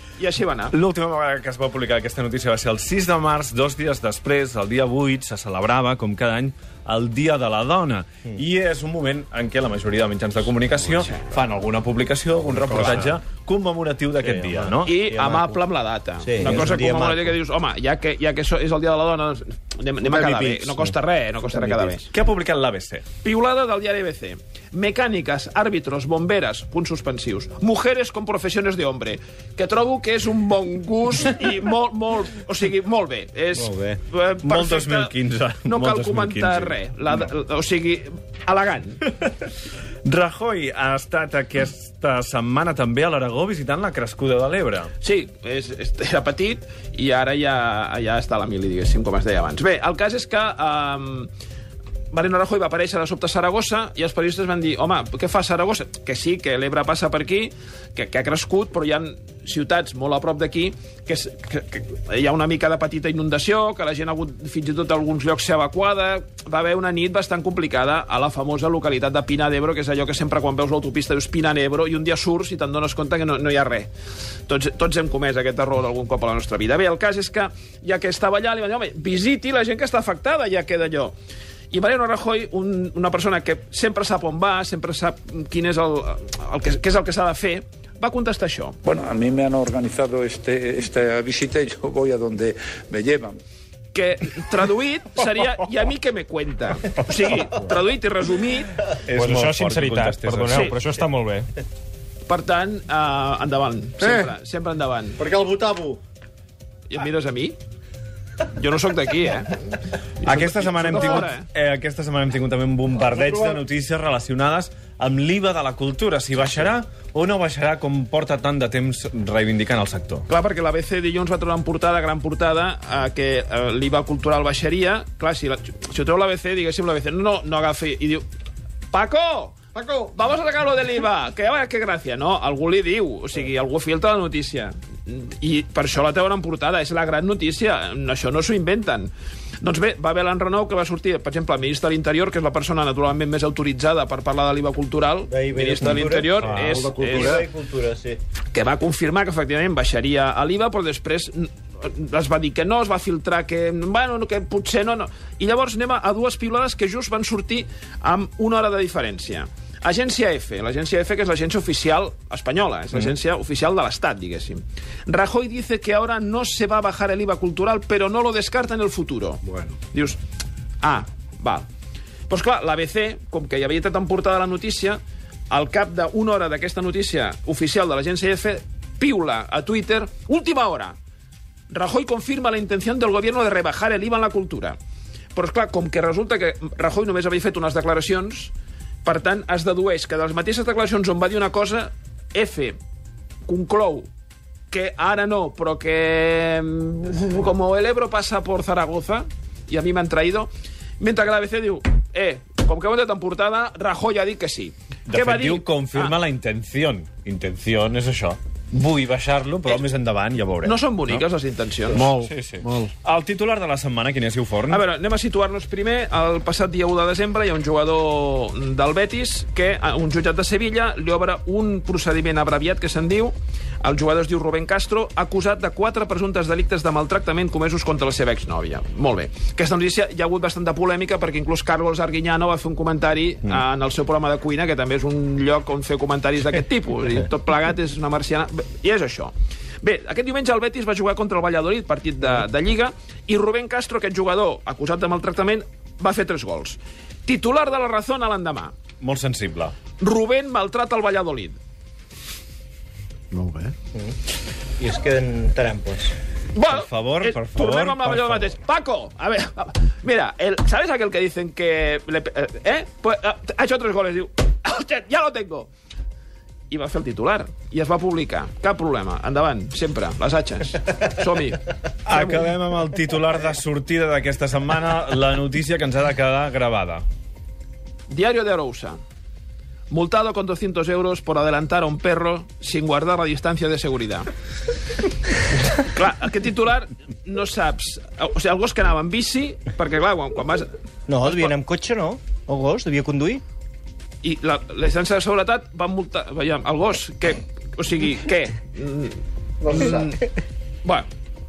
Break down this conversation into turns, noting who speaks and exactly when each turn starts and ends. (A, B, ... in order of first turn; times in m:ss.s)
0:00.2-0:00.8 A
0:00.7-0:14.9 B
0:14.2-0:15.6 C
0:14.8-0:22.1 A
0:16.2-0:17.4 C
0:16.4-0:16.7 B
0:20.0-0:20.9 C
0:21.5-0:21.9 C
0:22.1-0:23.0 B
0:23.2-0:39.0 A
0:33.5-0:34.0 C
0:34.4-0:36.8 B
0:40.0-0:44.9 B
0:45.0-0:51.3 A
0:52.1-1:13.9 A
1:14.5-1:21.1 A
1:21.7-1:28.8 A
1:28.8-1:33.4 D
1:33.9-1:38.8 A
1:38.9-1:40.9 B
1:39.1-1:41.5 E
1:40.5-1:40.8 A
1:42.3-1:45.2 A
1:44.0-1:44.3 F
1:45.2-1:46.0 F
1:46.9-1:47.6 A
1:48.5-1:49.5 A
1:50.2-1:51.5 A
1:50.2-2:00.2 B
1:53.2-1:53.6 F
2:00.3-2:08.2 A
2:08.9-2:09.6 A
2:09.7-2:10.1 F
2:10.1-2:27.4 A
2:25.2-2:28.2 C
2:26.4-2:26.8 B
2:26.5-2:27.4 F
2:28.5-2:50.2 A
2:50.8-2:51.7 A
2:52.3-3:01.0 A
3:01.7-3:04.8 A
3:05.3-3:08.5 A
3:09.0-3:12.8 A
3:13.4-3:14.1 A
3:14.7-3:26.2 A
3:25.1-3:31.2 B
3:30.6-3:32.1 A
3:31.9-3:32.9 F
3:32.0-3:34.8 B
3:34.7-4:08.7 A
4:09.0-4:09.7 B
4:10.0-4:11.6 A
4:13.3-4:13.7 F
4:14.8-4:16.1 C
4:16.5-4:25.7 A
4:16.6-4:18.6 B
4:26.7-4:32.4 A
4:32.0-4:37.0 B
4:38.1-4:39.0 A
4:39.9-4:44.3 A
4:45.8-4:50.7 A
4:51.1-4:53.4 C
4:51.2-4:51.5 A
4:54.2-4:59.2 A
4:59.7-5:00.2 A